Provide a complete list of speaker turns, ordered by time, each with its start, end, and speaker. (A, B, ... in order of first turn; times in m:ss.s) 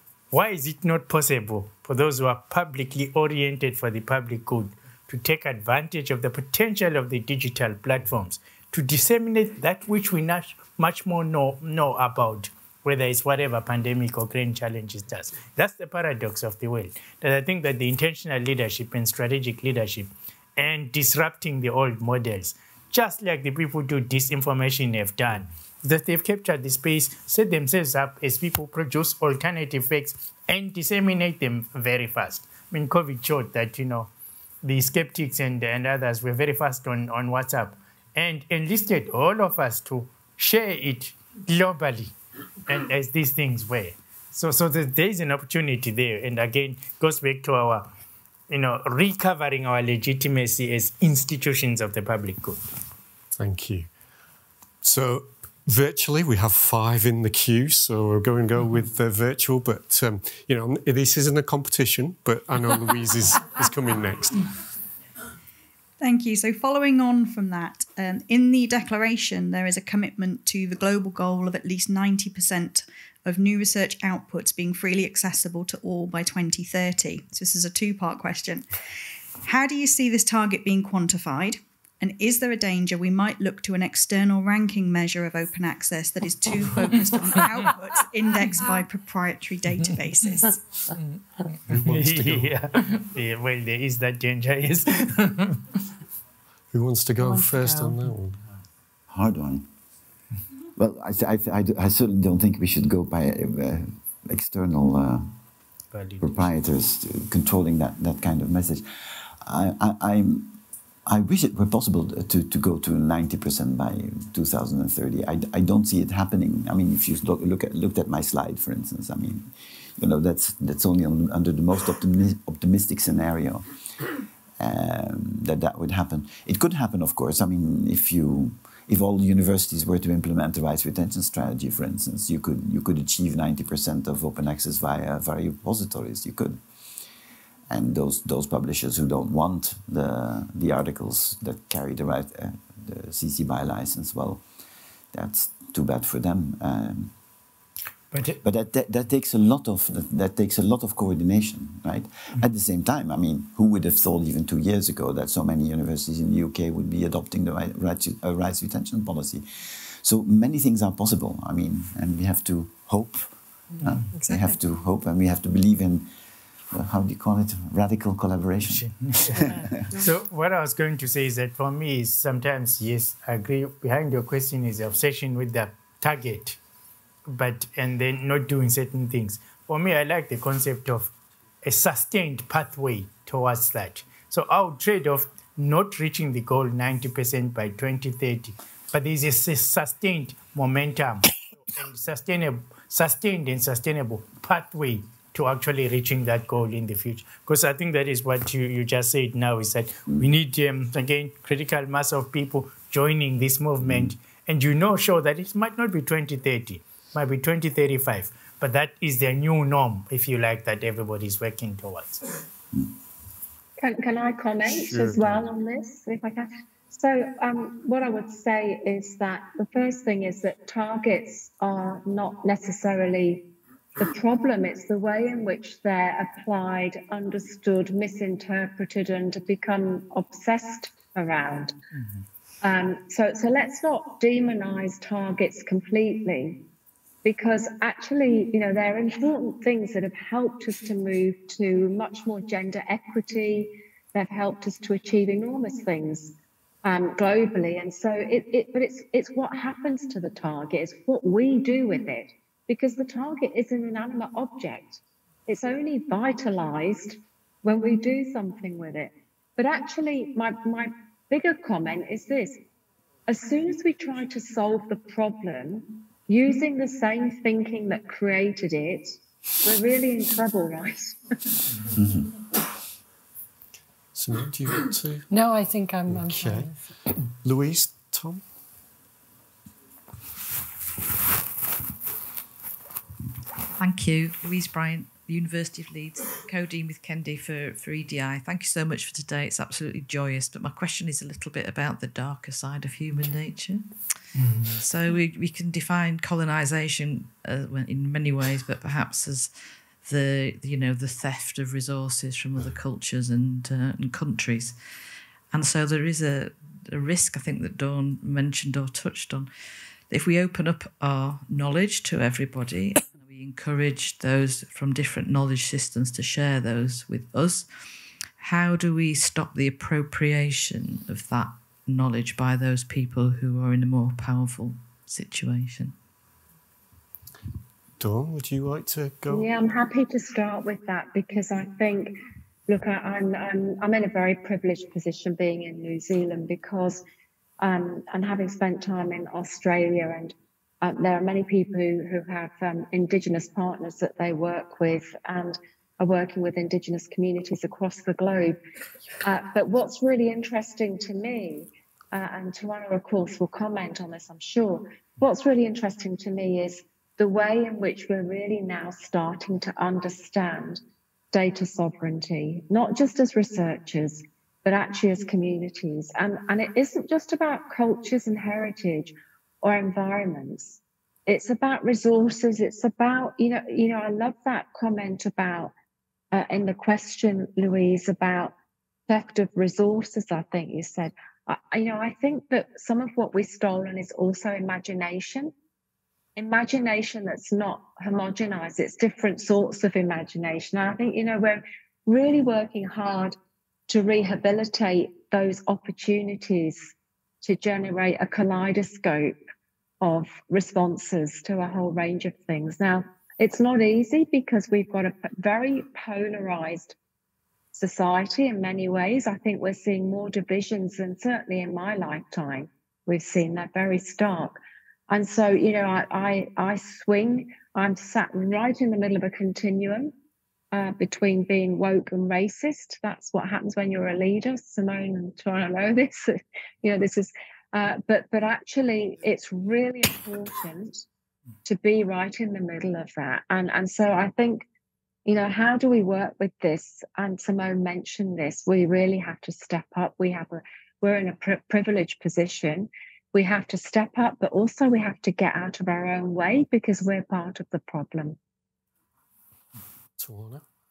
0:00.3-0:34.1 A
0:34.6-0:42.1 A
0:42.7-0:47.9 A
0:48.5-0:52.6 A
0:53.4-0:53.9 B
0:54.8-1:04.6 B
1:06.0-1:18.7 C
1:19.4-1:30.7 C
1:27.4-1:27.7 A
1:29.9-1:30.4 A
1:30.9-1:35.8 A
1:31.6-1:32.6 B
1:36.7-1:38.4 B
1:37.2-1:38.1 D
1:39.1-1:39.7 E
1:40.8-1:45.3 E
1:45.9-1:46.5 A
1:46.2-2:03.7 E
2:04.6-2:16.6 E
2:17.7-2:24.4 E
2:25.1-2:27.1 E
2:28.1-2:28.4 A
2:28.4-2:46.1 E
2:44.1-2:44.6 D
2:46.7-2:49.8 E
2:48.6-2:56.6 A
2:57.3-3:32.2 A
3:23.8-3:24.2 E
3:33.8-3:51.8 F
3:34.7-3:35.5 B
3:52.6-3:56.7 F
3:57.2-4:22.6 F
4:23.3-4:31.4 F
4:31.9-4:32.3 E
4:34.1-4:35.3 B
4:35.3-4:36.8 D
4:36.1-4:36.7 B
4:37.4-4:38.4 B
4:43.8-4:54.0 G
4:54.4-4:54.8 A
4:54.8-5:04.8 G
5:05.5-5:09.5 G
5:10.1-5:17.7 G
5:18.4-5:26.0 G
5:28.0-5:29.5 B
5:29.3-5:32.2 F
5:32.7-5:37.0 F
5:37.6-5:48.6 F
5:49.2-6:00.8 F
6:01.3-6:15.7 F
6:16.3-6:18.5 F
6:19.1-6:25.5 F
6:26.4-6:33.4 F
6:33.9-6:39.4 F
6:40.0-6:47.0 F
6:47.7-6:54.6 F
6:55.1-7:00.1 F
7:00.7-7:11.0 F
7:11.6-7:14.6 F
7:15.2-7:28.4 F
7:30.2-7:30.6 B